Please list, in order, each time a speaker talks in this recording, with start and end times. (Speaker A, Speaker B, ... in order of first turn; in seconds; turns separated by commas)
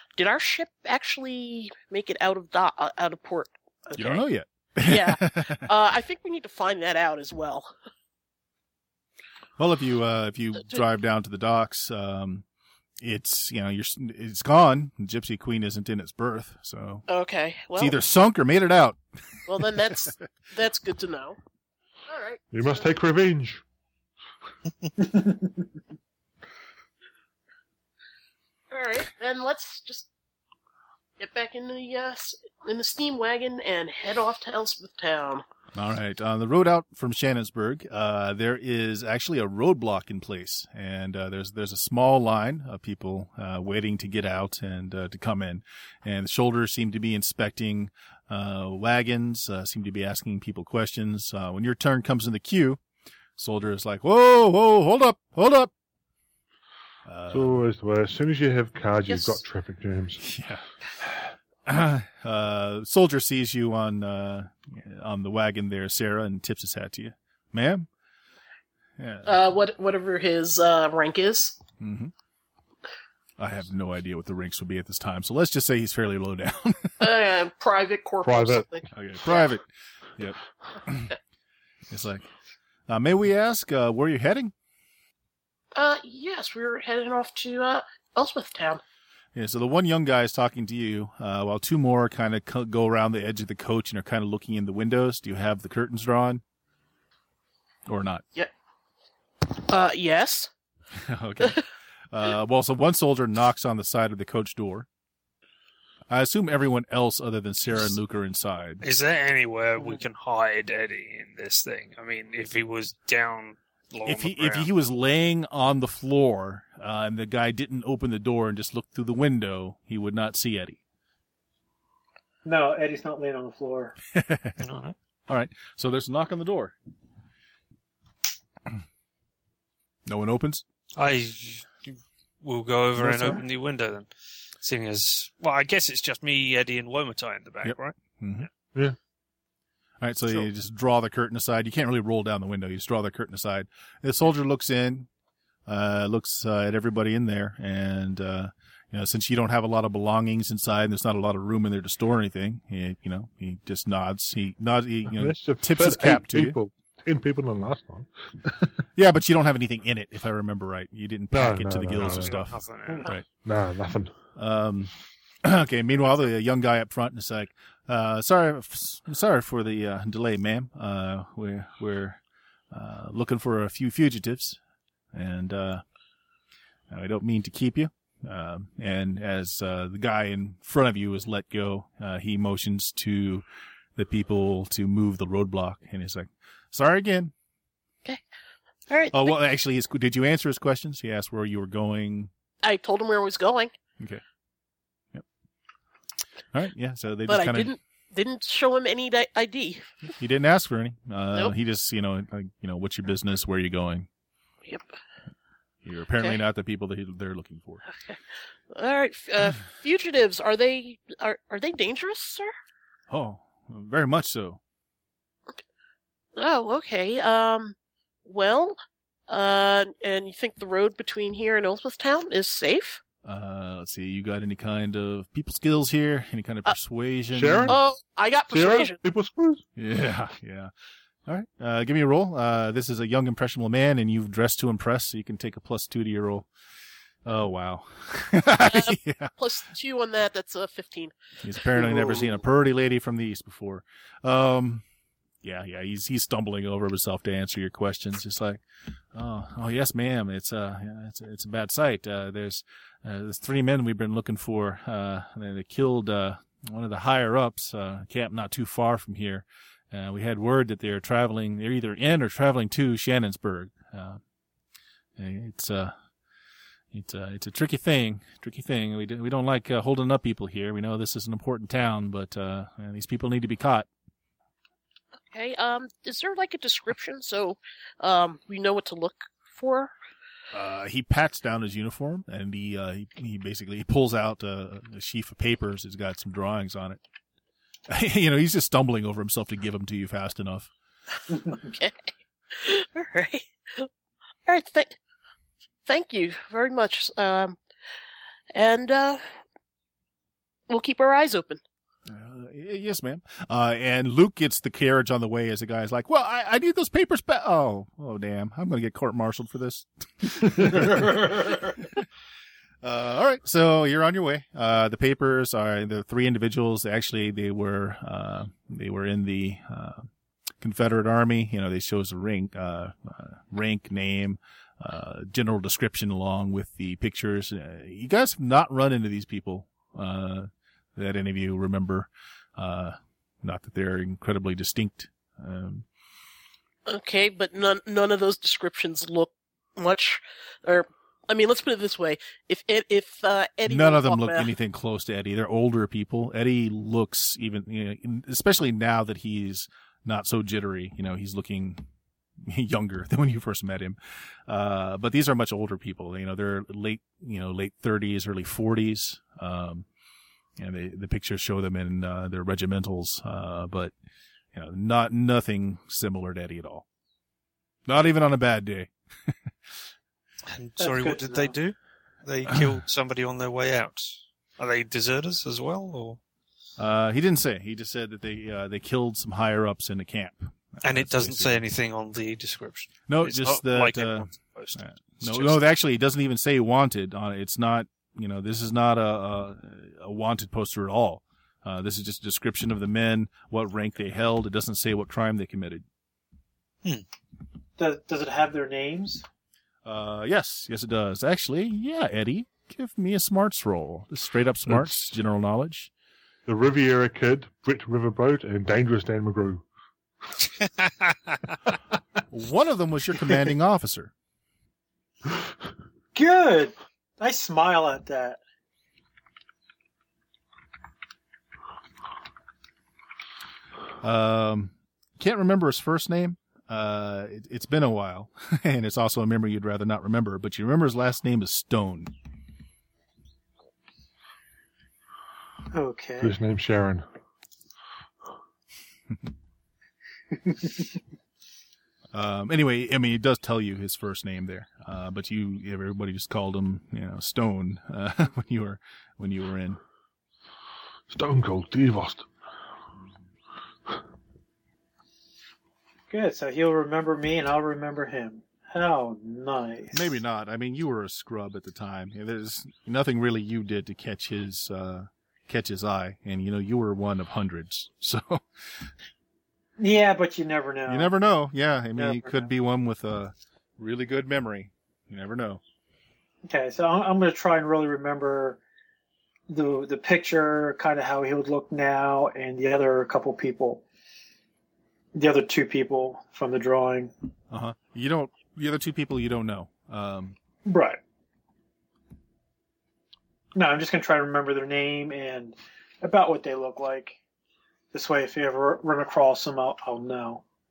Speaker A: 0.2-4.2, Speaker B: 4.0-5.7, Speaker A: 4.8-7.7, Speaker B: 9.6-12.4, Speaker B: 13.0-17.1, Speaker A: 17.1-18.0, Speaker B: 17.8-19.9, Speaker A: 19.5-21.4, Speaker A: 22.1-22.8, Speaker C: 22.5-23.6, Speaker A: 28.7-30.1, Speaker A: 31.2-35.5, Speaker B: 35.7-52.8, Speaker B: 53.4-55.7, Speaker B: 57.1-57.6, Speaker C: 57.3-60.3, Speaker A: 59.1-59.4, Speaker B: 60.2-67.9, Speaker B: 69.0-69.4, Speaker A: 69.2-71.6, Speaker B: 71.8-72.1, Speaker B: 73.4-77.1, Speaker A: 77.0-79.5, Speaker C: 78.2-78.7, Speaker B: 78.9-81.1, Speaker B: 81.9-82.3, Speaker B: 82.9-84.5, Speaker A: 85.8-88.8, Speaker B: 89.3-96.4, Speaker B: 97.9-98.2, Speaker A: 99.5-100.5, Speaker B: 100.9-104.9, Speaker B: 106.1-108.8, Speaker D: 108.8-114.7, Speaker B: 114.1-120.8, Speaker E: 122.5-124.0, Speaker B: 124.1-124.6, Speaker D: 124.6-125.0, Speaker B: 125.3-126.8, Speaker B: 130.1-130.6, Speaker D: 131.0-138.5, Speaker C: 133.0-133.4, Speaker B: 137.6-138.5, Speaker B: 140.0-145.1, Speaker B: 145.7-156.6, Speaker C: 155.1-158.7, Speaker B: 158.9-163.3, Speaker C: 161.3-162.4, Speaker D: 162.0-163.1, Speaker C: 163.3-164.2, Speaker B: 164.4-164.9, Speaker B: 165.4-174.6, Speaker B: 175.1-175.8, Speaker B: 176.9-183.4, Speaker B: 184.0-187.3, Speaker A: 188.9-189.2, Speaker B: 189.1-192.3, Speaker A: 192.6-193.7, Speaker B: 196.5-197.7, Speaker A: 197.3-199.9, Speaker B: 200.1-204.1, Speaker B: 205.8-207.8, Speaker A: 208.7-212.5, Speaker B: 213.1-214.6, Speaker A: 216.4-223.0, Speaker B: 223.2-227.8, Speaker C: 227.3-227.8, Speaker A: 227.7-229.0, Speaker C: 228.5-229.6, Speaker B: 229.8-230.7, Speaker B: 231.3-236.5, Speaker B: 237.2-239.3, Speaker A: 238.6-241.2, Speaker B: 241.4-244.8, Speaker A: 241.7-242.3, Speaker B: 245.4-248.6, Speaker B: 249.1-264.2, Speaker B: 265.2-265.9, Speaker B: 266.9-273.9, Speaker A: 275.3-279.9, Speaker B: 280.5-287.0, Speaker B: 287.9-290.7, Speaker A: 291.7-293.9, Speaker A: 294.5-295.0, Speaker A: 295.9-297.6, Speaker A: 298.6-299.2, Speaker A: 300.7-301.6, Speaker B: 302.1-312.1, Speaker B: 312.8-320.1, Speaker B: 320.6-335.9, Speaker A: 336.9-344.5, Speaker B: 343.7-351.9, Speaker B: 352.4-359.9, Speaker B: 360.6-363.9, Speaker B: 364.5-366.9, Speaker B: 367.9-369.5, Speaker D: 370.5-376.2, Speaker E: 370.8-371.6, Speaker B: 372.5-372.7, Speaker B: 376.8-381.6, Speaker D: 380.8-385.6, Speaker B: 383.1-395.9, Speaker E: 397.8-399.2, Speaker B: 399.9-405.9, Speaker C: 406.5-409.6, Speaker D: 410.6-411.6, Speaker B: 412.3-414.1, Speaker E: 416.1-418.4, Speaker B: 424.0-432.1, Speaker E: 435.7-436.4, Speaker C: 436.2-437.1, Speaker B: 442.1-449.8, Speaker C: 451.1-452.3, Speaker E: 456.1-459.9, Speaker B: 459.9-468.9, Speaker E: 469.8-471.1, Speaker B: 470.9-475.6, Speaker E: 472.0-472.4, Speaker E: 476.4-478.6, Speaker E: 479.5-483.8, Speaker E: 485.1-487.1, Speaker B: 487.5-490.4, Speaker E: 490.7-491.0, Speaker E: 493.6-497.2, Speaker E: 497.9-500.4